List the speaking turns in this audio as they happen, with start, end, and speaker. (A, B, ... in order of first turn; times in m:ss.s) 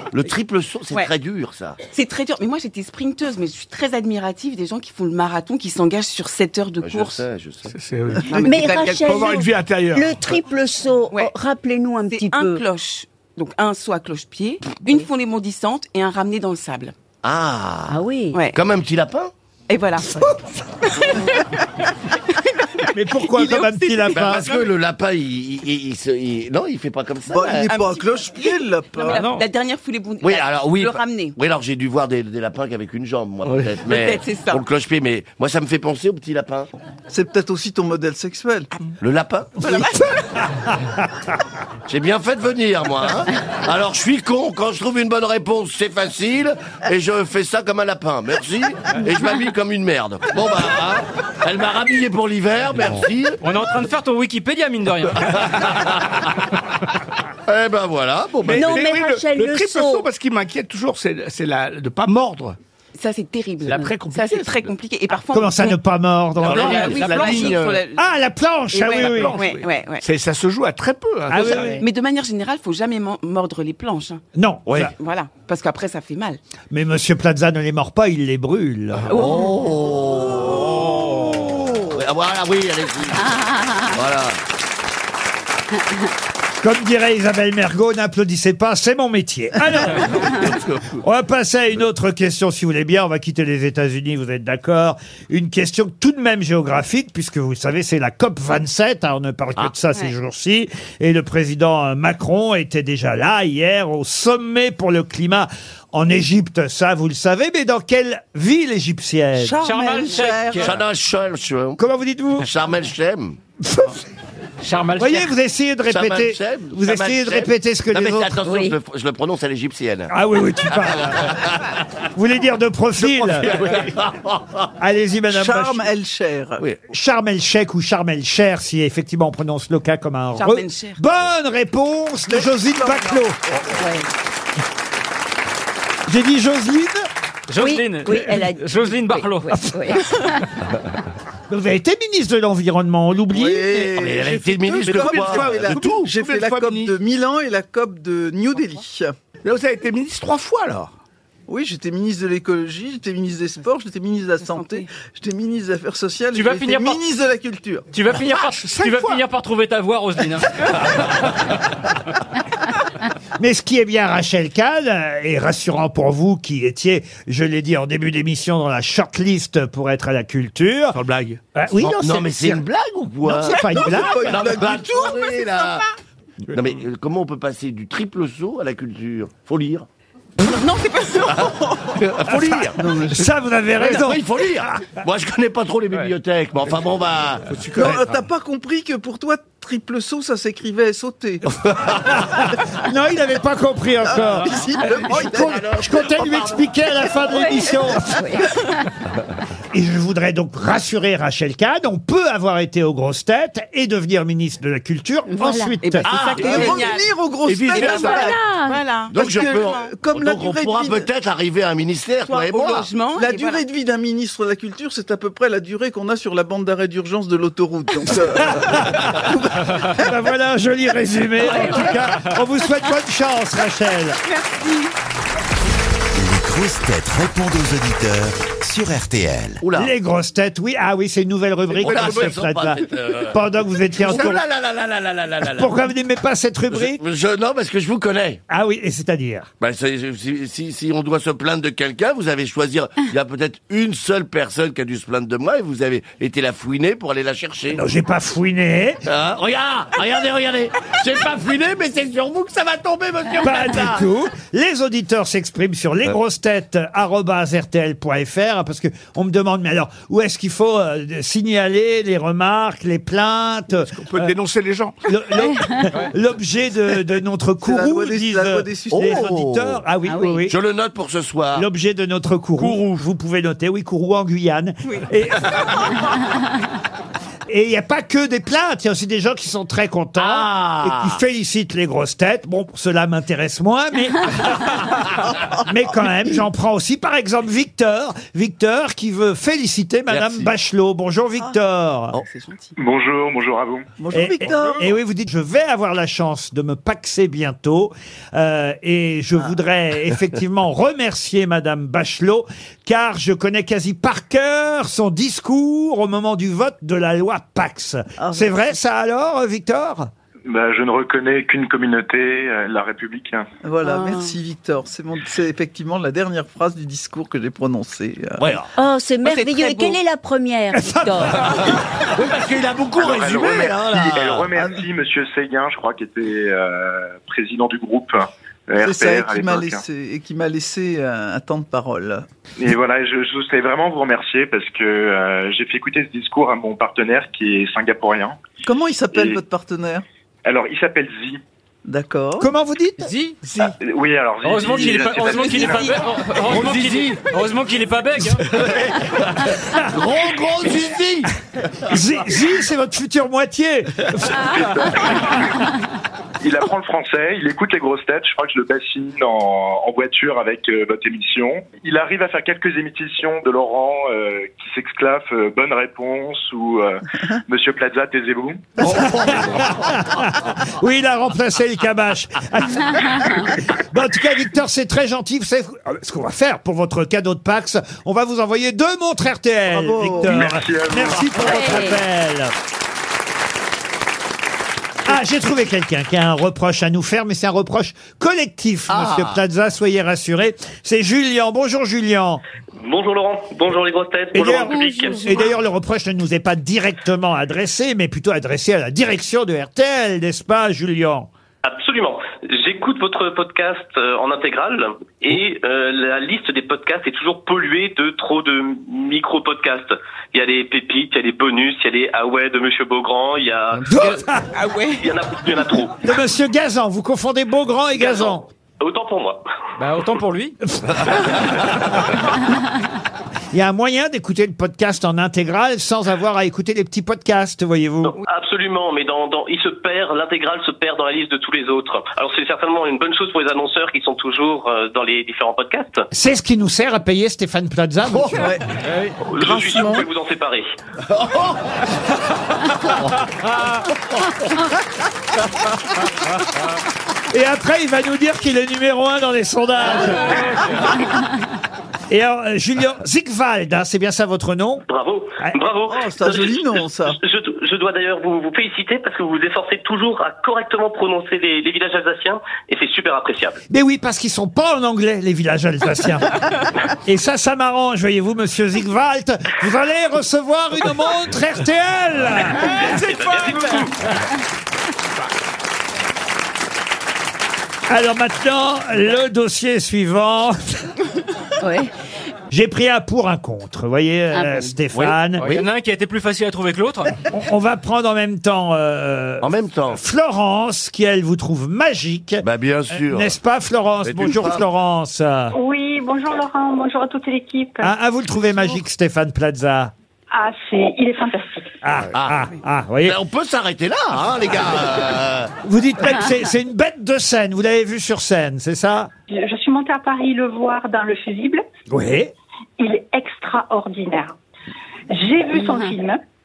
0:00.1-0:01.8 A
0:01.9-0:07.2 B
0:06.8-0:07.7 A
0:07.7-0:10.2 C
0:08.3-0:09.2 B
0:08.3-0:08.6 D
0:08.4-0:12.6 E
0:12.1-0:17.0 B
0:17.2-0:18.0 A
0:17.9-0:18.4 E
0:18.5-0:19.3 A
0:19.7-0:20.1 B
0:20.9-0:21.4 B
0:22.3-0:24.7 B
0:22.9-0:24.5 F
0:24.1-0:27.8 A
0:27.3-0:29.3 D
0:27.6-0:31.4 B
0:29.1-0:29.4 G
0:30.2-0:36.7 A
0:33.4-0:33.8 C
0:33.8-0:34.6 B
0:37.1-0:38.7 D
0:39.0-0:39.8 A
0:39.6-0:40.1 B
0:41.9-0:53.4 A
0:53.4-0:55.7 G
0:55.6-0:56.2 A
0:57.5-0:58.8 A
0:58.4-1:02.6 C
0:58.5-1:00.1 E
1:03.0-1:05.8 B
1:03.6-1:04.7 C
1:05.3-1:07.1 F
1:06.4-1:07.8 C
1:06.4-1:08.0 B
1:06.5-1:07.0 A
1:08.0-1:09.4 F
1:08.7-1:10.0 B
1:08.8-1:11.8 C
1:11.3-1:11.8 F
1:11.4-1:14.2 B
1:14.4-1:14.9 F
1:14.7-1:14.9 A
1:14.9-1:16.4 B
1:16.7-1:19.2 F
1:19.1-1:21.0 A
1:19.1-1:19.5 B
1:21.9-1:23.3 A
1:23.3-1:24.0 E
1:23.9-1:24.4 A
1:26.6-1:49.6 F
1:30.4-1:31.0 A
1:49.4-1:50.8 D
1:49.6-1:50.8 G
1:50.6-1:51.8 A
1:51.8-1:52.5 F
1:52.4-1:53.4 A
1:53.6-1:54.0 F
1:54.6-1:55.3 G
1:55.0-1:58.4 F
1:55.9-2:00.1 A
1:58.4-1:58.8 E
2:00.1-2:01.4 F
2:00.8-2:01.6 A
2:02.2-2:03.8 F
2:03.4-2:04.7 A
2:04.8-2:05.9 F
2:05.3-2:06.6 D
2:06.9-2:13.4 F
2:10.4-2:11.0 B
2:12.3-2:13.6 D
2:13.8-2:14.1 E
2:16.1-2:17.0 F
2:17.5-2:19.6 G
2:17.6-2:20.4 E
2:21.5-2:23.9 F
2:23.3-2:29.1 D
2:23.9-2:26.1 A
2:24.8-2:26.9 C
2:29.4-2:30.9 C
2:31.5-2:37.9 D
2:34.4-2:34.9 B
2:36.3-2:37.0 G
2:37.9-2:40.9 G
2:38.3-2:39.2 C
2:43.4-2:51.0 F
2:50.9-2:51.4 C
2:51.6-2:52.6 F
2:51.8-2:55.8 A
2:53.2-2:54.4 F
2:53.3-2:55.4 D
2:56.5-2:59.9 A
3:00.4-3:02.0 B
3:02.0-3:02.8 A
3:02.3-3:04.8 F
3:02.8-3:03.3 D
3:03.8-3:07.6 A
3:07.5-3:08.1 C
3:07.7-3:11.4 D
3:12.0-3:18.3 F
3:14.1-3:15.7 D
3:15.5-3:16.4 A
3:18.0-3:18.5 E
3:19.7-3:26.1 F
3:25.3-3:25.8 E
3:25.8-3:27.1 B
3:26.1-3:26.9 A
3:26.4-3:28.4 D
3:27.5-3:28.2 C
3:27.8-3:29.9 B
3:28.1-3:28.9 E
3:29.1-3:32.9 A
3:29.2-3:31.1 D
3:32.2-3:33.6 B
3:33.1-3:39.8 D
3:38.4-3:39.2 F
3:40.0-3:44.2 F
3:44.2-3:44.9 B
3:46.1-3:49.6 H
3:49.6-3:49.9 A
3:49.8-3:54.4 F
3:51.8-3:55.8 A
3:55.4-3:57.0 F
3:56.7-3:58.4 A
3:58.5-3:59.5 F
3:59.6-4:07.8 A
4:07.7-4:09.0 F
4:09.1-4:14.1 A
4:13.4-4:24.3 F
4:23.8-4:25.0 C
4:25.1-4:30.6 F
4:25.4-4:25.9 E
4:27.6-4:29.3 D
4:28.9-4:29.8 A
4:30.0-4:30.5 E
4:30.5-4:31.7 A
4:31.6-4:36.0 F
4:32.6-4:33.0 A
4:37.5-4:44.8 F
4:40.2-4:41.2 A
4:45.7-4:52.2 F
4:50.1-4:50.5 A
4:52.2-4:52.8 B
4:52.8-4:53.9 I
4:54.0-4:54.9 D
4:54.1-5:10.1 F
5:08.2-5:08.6 D
5:10.5-5:13.4 I
5:13.6-5:18.4 D
5:13.8-5:14.3 E
5:18.4-5:18.7 A
5:18.8-5:21.6 E
5:19.2-5:20.0 B
5:20.8-5:21.7 F
5:22.1-5:24.5 A
5:23.0-5:29.8 I
5:28.8-5:32.2 D
5:32.6-5:38.4 I
5:38.6-5:40.0 D
5:39.1-5:39.4 I
5:40.4-5:41.4 I
5:41.9-5:42.5 D
5:42.4-5:43.1 F
5:43.0-5:43.4 G
5:43.4-5:43.7 C
5:43.8-5:45.9 I
5:44.4-5:48.4 G
5:45.3-5:45.9 B
5:46.5-5:47.1 A
5:49.9-5:51.3 A
5:51.9-5:55.1 F
5:56.4-6:08.8 I
6:08.8-6:22.5 F
6:08.9-6:09.4 A
6:19.7-6:20.4 D
6:20.2-6:21.4 I
6:21.4-6:22.0 E
6:21.4-6:21.8 A
6:25.0-6:32.4 F
6:28.9-6:29.4 A
6:32.8-6:35.5 J
6:34.3-6:41.3 F
6:41.6-6:54.2 J
6:53.9-6:54.4 F
6:53.9-6:55.0 B
6:55.0-6:56.0 J
6:56.0-6:58.4 F
6:58.0-6:59.4 J
6:59.8-7:00.6 G
7:03.5-7:08.2 F
7:08.1-7:16.1 J
7:16.1-7:18.5 F
7:18.4-7:18.6 D
7:18.8-7:19.2 G
7:19.2-7:20.7 J
7:19.4-7:20.1 D
7:21.1-7:21.6 A
7:27.3-7:30.4 F
7:30.0-7:30.4 G
7:32.1-7:34.8 F
7:34.9-7:43.6 J
7:35.9-7:37.2 D
7:43.7-7:46.3 F
7:47.0-7:52.8 F
7:52.6-7:53.9 J
7:57.9-8:00.9 F
8:01.6-8:01.9 E
8:02.5-8:05.5 F
8:04.3-8:04.8 E
8:04.9-8:05.7 A
8:05.4-8:07.2 G
8:07.3-8:15.6 F
8:09.4-8:10.0 A
8:12.4-8:13.4 A
8:14.0-8:14.6 A
8:15.5-8:17.9 K
8:17.8-8:19.9 F
8:20.3-8:21.7 K
8:21.8-8:23.2 F
8:22.1-8:22.5 A
8:23.0-8:25.5 A
8:25.6-8:29.1 F
8:29.3-8:31.6 K
8:31.9-8:32.3 F
8:32.8-8:34.4 K
8:35.1-8:36.2 K
8:35.6-8:36.0 E